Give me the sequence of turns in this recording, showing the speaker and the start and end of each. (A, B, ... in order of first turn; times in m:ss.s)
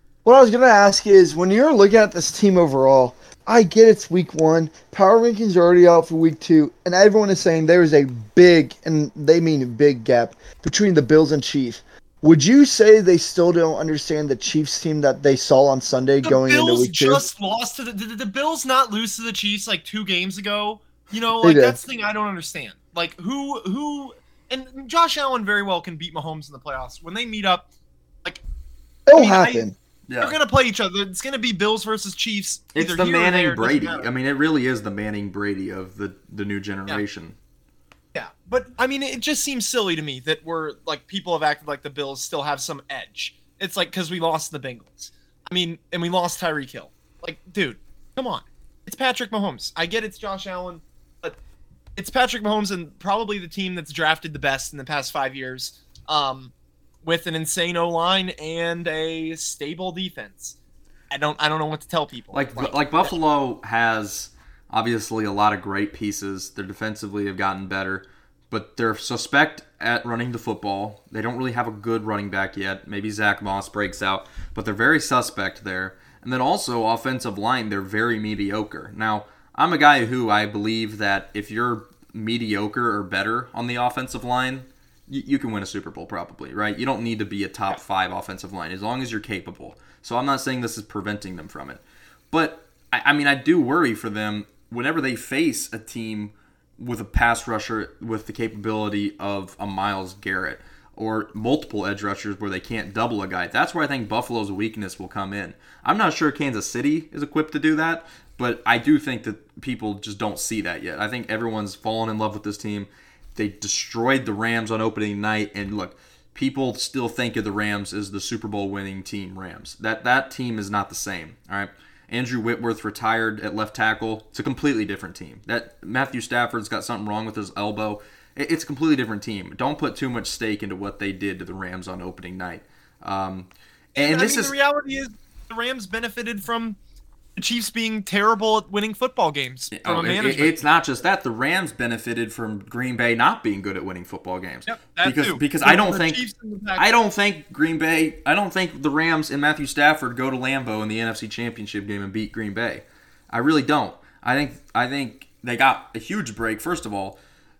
0:00.2-0:17.2 A
0:16.2-0:27.7 B
0:21.4-0:21.8 A
0:29.1-0:29.7 A
0:29.1-0:29.7 B
0:30.1-0:30.4 C
0:30.2-0:34.1 B
0:32.7-0:37.4 C
0:38.1-0:51.4 B
0:52.0-0:56.5 B
0:57.0-1:00.6 B
1:01.1-1:03.1 B
1:02.3-2:14.5 C
2:13.9-2:16.8 B
2:17.4-2:20.7 B
2:19.7-2:26.2 C
2:24.6-2:26.8 B
2:26.8-2:37.2 C